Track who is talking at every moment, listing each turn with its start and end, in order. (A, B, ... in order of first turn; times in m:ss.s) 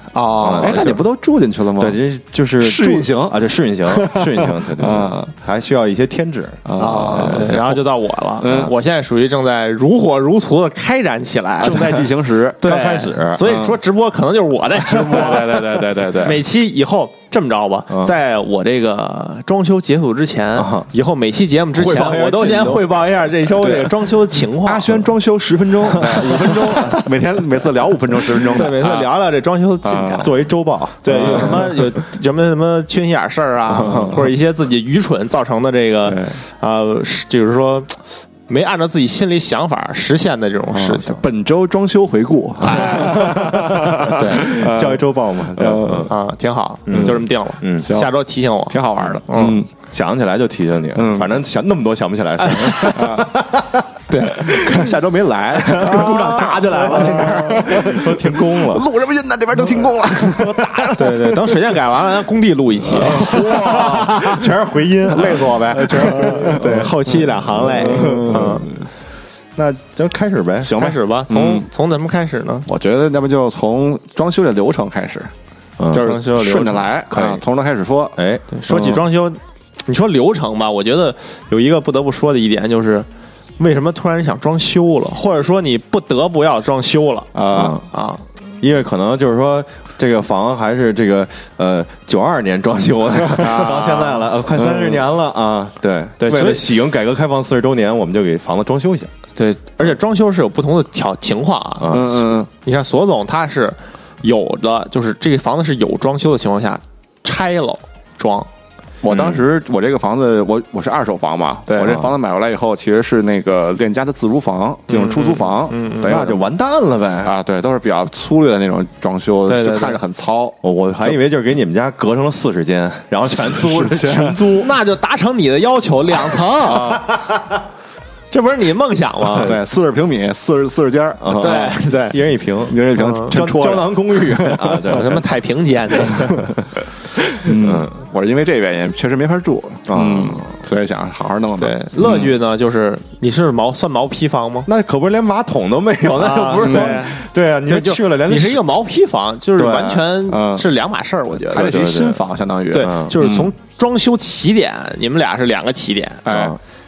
0:00.1-0:01.0 A
0:00.4-0:01.0 B
0:00.6-0:02.0 C
0:01.8-0:06.6 B
0:02.6-0:05.3 C
0:06.6-0:07.8 C
0:06.8-0:12.0 A
0:08.4-0:08.7 C
0:11.6-0:12.6 C
0:12.6-0:25.0 A
0:12.6-0:13.4 B
0:13.4-0:13.8 C
0:14.8-0:16.4 C
0:20.5-0:20.9 B
0:21.7-0:29.1 C
0:25.5-0:27.1 B
0:26.0-0:27.1 A
0:28.4-0:30.3 A
0:29.8-0:30.3 C
0:30.2-0:31.8 B
0:31.0-0:38.0 A
0:31.1-0:31.6 C
0:33.7-0:34.3 B
0:36.0-0:36.4 C
0:38.5-0:41.2 A
0:40.7-0:46.1 C
0:42.6-0:43.3 A
0:43.0-0:46.1 B
0:44.0-0:44.5 A
0:46.1-0:49.6 A
0:46.9-0:47.9 B
0:46.9-0:47.2 C
0:47.8-0:49.7 C
0:49.5-0:53.9 B
0:51.0-0:51.3 C
0:52.4-0:52.9 A
0:52.7-0:53.3 C
0:54.1-0:54.7 A
0:54.4-1:01.6 C
0:55.5-0:58.9 B
0:56.8-0:57.8 A
0:59.7-1:00.9 B
1:00.9-1:04.4 A
1:02.9-1:04.4 C
1:03.0-1:07.0 B
1:05.1-1:06.9 C
1:05.3-1:08.7 A
1:07.5-1:08.7 B
1:07.6-1:08.8 C
1:09.6-1:10.8 B
1:10.6-1:11.7 C
1:10.7-1:12.6 A
1:12.7-1:15.3 C
1:15.8-1:16.3 B
1:15.9-1:18.2 C
1:16.0-1:16.8 A
1:17.1-1:17.4 B
1:18.2-1:18.4 B
1:18.5-1:23.1 A
1:18.7-1:19.0 C
1:23.6-1:27.3 A
1:27.3-1:27.8 C
1:27.5-1:27.8 B
1:27.8-1:28.2 A
1:28.6-1:39.1 B
1:33.3-1:34.3 A
1:34.5-1:35.0 C
1:36.2-1:36.8 A
1:39.4-1:42.0 A
1:41.8-1:42.3 B
1:41.9-1:42.5 C
1:42.6-1:48.5 A
1:49.0-1:56.4 C
1:49.1-1:49.4 B
1:51.7-1:52.1 A
1:54.9-1:56.3 A
1:56.0-1:57.3 B
1:57.2-2:00.6 C
1:59.5-2:00.0 A
2:00.6-2:04.7 B
2:03.3-2:04.5 C
2:04.5-2:07.1 A
2:06.7-2:07.0 C
2:08.3-2:09.5 A
2:09.4-2:11.5 C
2:11.2-2:15.2 B
2:11.4-2:12.2 A
2:12.7-2:15.1 C
2:13.0-2:13.4 A
2:14.8-2:16.5 A
2:17.3-2:22.3 C
2:17.5-2:17.9 B
2:19.9-2:20.5 B
2:21.6-2:24.7 A
2:24.6-2:28.6 B
2:26.2-2:31.7 A
2:26.6-2:27.0 C
2:29.6-2:30.1 B
2:30.3-2:30.6 C
2:31.5-2:33.5 C
2:31.5-2:32.2 B
2:32.7-2:36.4 A
2:32.8-2:33.2 B
2:36.2-2:36.6 C
2:36.3-2:36.6 B